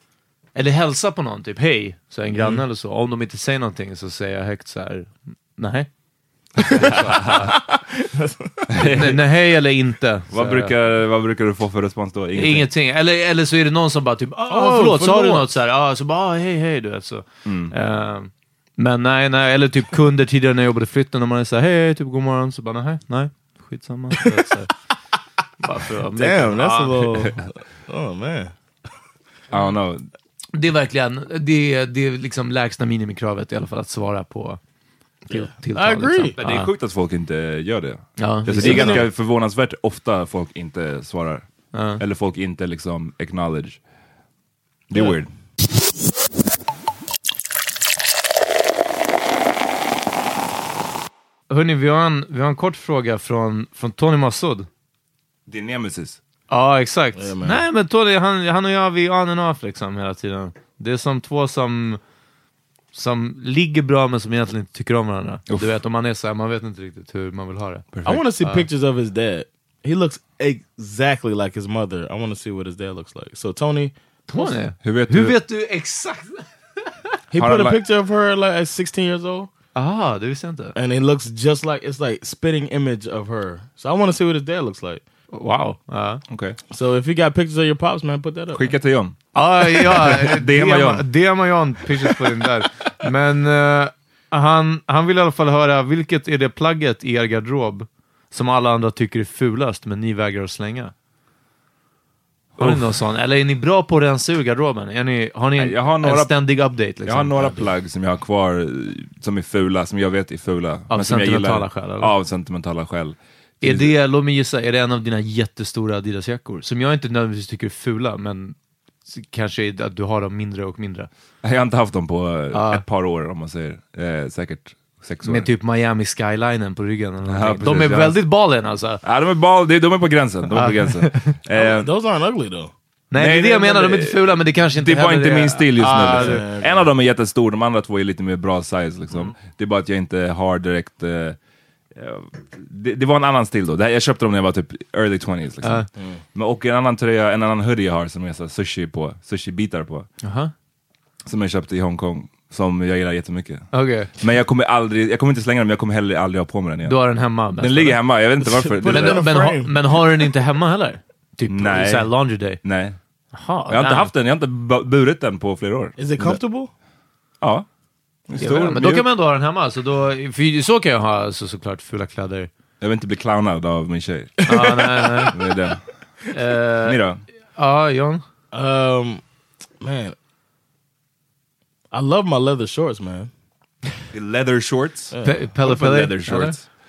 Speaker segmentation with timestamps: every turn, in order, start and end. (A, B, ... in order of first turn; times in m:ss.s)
0:00.5-0:05.9 A
0:02.4-0:02.6 B
0:06.6-0:07.6 C
0:06.7-0:07.5 A
0:07.0-0:08.6 B
0:08.7-0:09.2 C
0:08.9-0:10.7 A
0:10.3-0:12.7 C
0:12.3-0:24.7 A
0:14.5-0:15.5 B
0:17.4-0:17.7 C
0:25.6-0:27.1 A
0:26.2-0:28.5 B
0:29.5-0:30.1 C
0:30.5-0:34.6 A
0:35.3-0:36.7 A
0:35.3-0:36.3 B
0:36.4-0:41.4 C
0:38.2-0:39.0 A
0:38.5-0:39.1 B
0:41.7-0:42.0 A
0:42.0-0:43.8 C
0:44.9-0:45.3 C
0:51.5-0:54.7 A
0:55.5-0:56.2 C
0:56.5-1:02.0 A
0:57.2-0:57.6 B
1:02.9-1:08.7 A
1:07.9-1:08.2 C
1:08.0-1:14.6 B
1:14.3-1:16.9 A
1:14.8-1:15.4 C
1:17.3-1:19.5 B
1:17.4-1:17.8 C
1:19.7-1:20.8 A
1:20.8-1:25.0 B
1:25.3-1:26.2 A
1:26.3-1:26.6 C
1:26.7-1:28.7 B
1:28.5-1:29.2 C
1:29.3-1:40.9 A
1:29.7-1:31.1 C
1:42.6-1:43.0 C
1:42.6-1:47.7 A
1:45.6-1:46.4 C
1:47.0-1:53.9 C
1:50.9-1:52.1 A
1:53.6-1:58.5 A
1:59.1-2:01.1 A
2:01.4-2:05.5 C
2:02.5-2:02.8 A
2:05.2-2:09.0 A
2:07.3-2:08.2 C
2:09.0-2:11.9 C
2:10.5-2:11.3 A
2:11.5-2:12.7 B
2:13.1-2:16.4 A
2:13.1-2:21.4 C
2:16.1-2:16.9 B
2:21.9-2:30.1 C
2:25.6-2:25.9 A
2:30.2-2:30.5 A
2:31.2-2:37.0 C
2:33.7-2:34.1 A
2:36.8-2:38.0 A
2:37.6-2:39.5 C
2:38.4-2:40.0 B
2:38.8-2:42.6 A
2:41.5-2:43.0 C
2:43.3-2:44.1 A
2:43.7-2:46.4 C
2:46.0-2:46.7 B
2:47.4-2:47.6 C
2:48.3-2:49.0 C
2:48.4-2:52.5 A
2:52.8-2:54.4 C
2:54.5-2:55.3 A
2:54.5-2:55.4 B
2:55.3-2:55.8 C
2:56.3-2:57.0 A
2:56.8-2:57.2 C
2:57.6-2:58.2 A
2:58.5-2:59.2 B
2:59.8-3:00.2 B
3:01.9-3:03.3 B
3:04.1-3:06.6 C
3:05.1-3:05.4 B
3:05.2-3:06.5 A